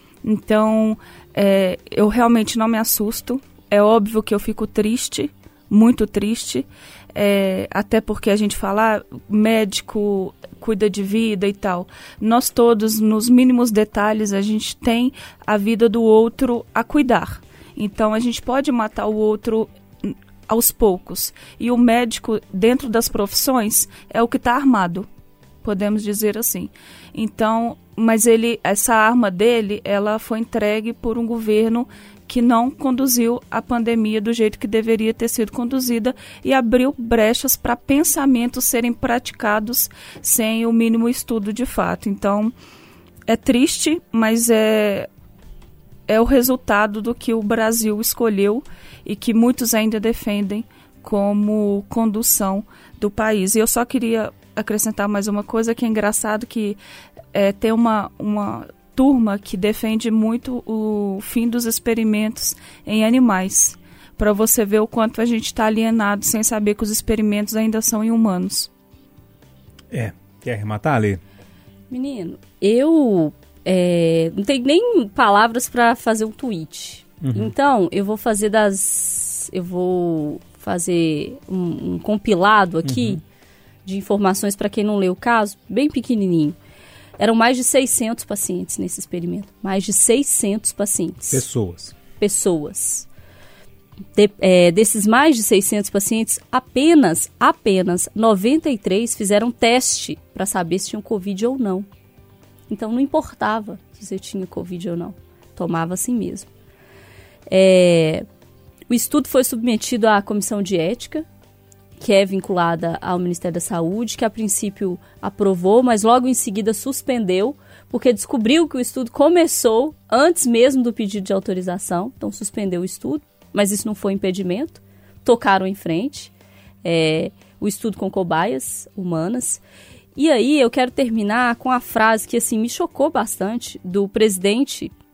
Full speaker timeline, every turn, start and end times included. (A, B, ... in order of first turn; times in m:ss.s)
0:00.2-0:25.1 A
0:25.6-0:42.5 A
0:43.3-0:45.1 A
0:46.1-0:56.8 A
0:57.3-1:08.7 A
1:09.9-1:11.2 B
1:11.9-1:23.2 C
1:17.2-1:17.5 B
1:22.8-1:23.2 B
1:23.8-1:26.6 C
1:27.2-1:31.4 C
1:31.3-1:31.9 B
1:32.2-1:33.1 C
1:34.1-1:41.9 C
1:42.7-1:46.5 C
1:47.5-1:48.2 C
1:48.9-1:51.2 C
1:52.0-2:06.3 C
2:06.8-2:09.6 C
2:10.2-2:14.9 C